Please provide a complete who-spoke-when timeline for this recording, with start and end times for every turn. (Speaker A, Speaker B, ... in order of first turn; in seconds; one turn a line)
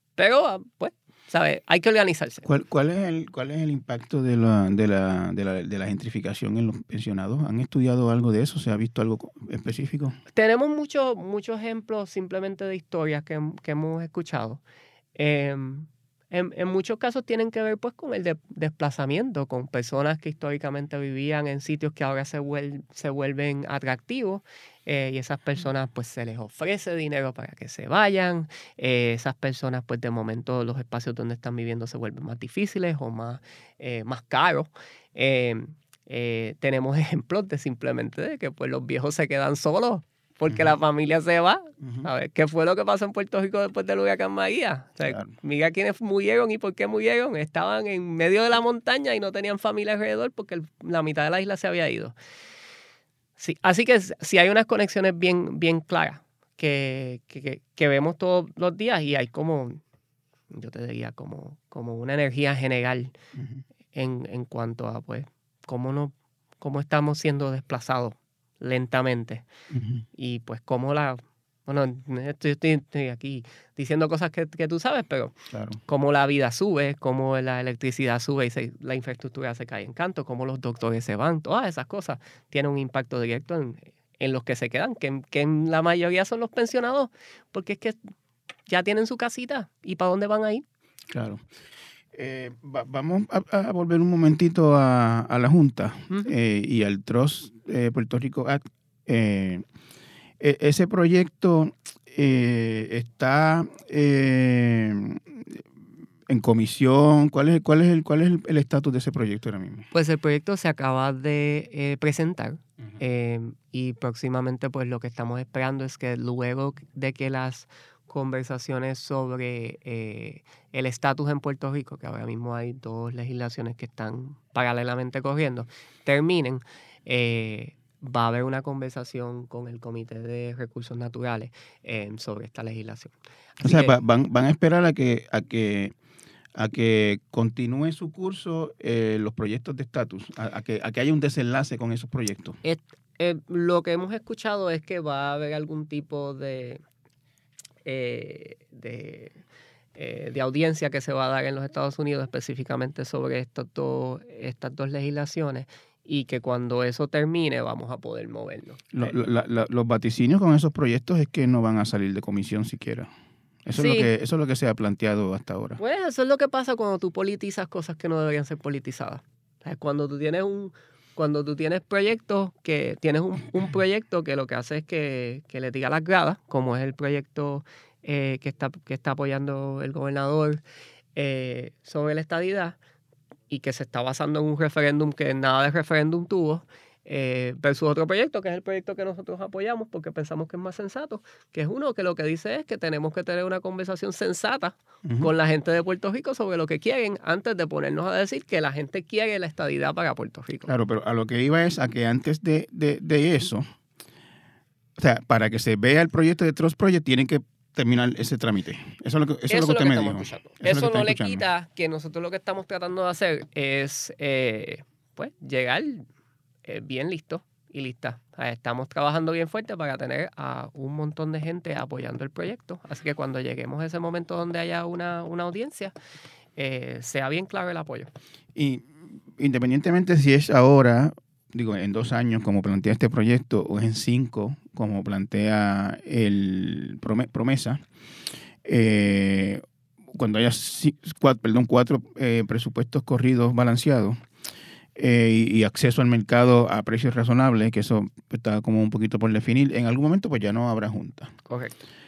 Speaker A: 0.2-2.4
Speaker B: 2.4-10.2
Speaker A: 10.3-14.6
Speaker A: 15.2-52.1
Speaker B: 40.5-40.7
Speaker B: 41.8-42.1
Speaker B: 45.0-45.3
Speaker A: 53.4-59.8
Speaker A: 60.5-63.1
Speaker B: 63.4-63.6
Speaker A: 63.9-69.5
Speaker B: 69.7-70.0
Speaker A: 70.2-75.3
Speaker B: 75.5-75.8
Speaker A: 75.9-88.0
Speaker A: 88.7-90.6
Speaker B: 91.1-91.4
Speaker B: 92.1-99.6
Speaker B: 100.4-105.6
Speaker B: 106.3-109.9
Speaker A: 109.9-133.9
Speaker B: 133.6-135.9
Speaker B: 136.5-142.6
Speaker A: 142.6-146.8
Speaker A: 147.8-149.4
Speaker A: 149.9-159.1
Speaker B: 158.9-163.1
Speaker B: 163.6-165.8
Speaker A: 163.7-164.1
Speaker A: 165.8-180.6
Speaker A: 181.2-182.8
Speaker A: 183.5-200.7
Speaker B: 195.0-195.3
Speaker B: 200.7-203.7
Speaker B: 205.0-211.4
Speaker A: 209.5-216.1
Speaker A: 216.7-225.9
Speaker A: 226.6-228.1
Speaker B: 228.5-237.8
Speaker B: 238.6-244.2
Speaker B: 244.9-251.3
Speaker A: 251.5-251.8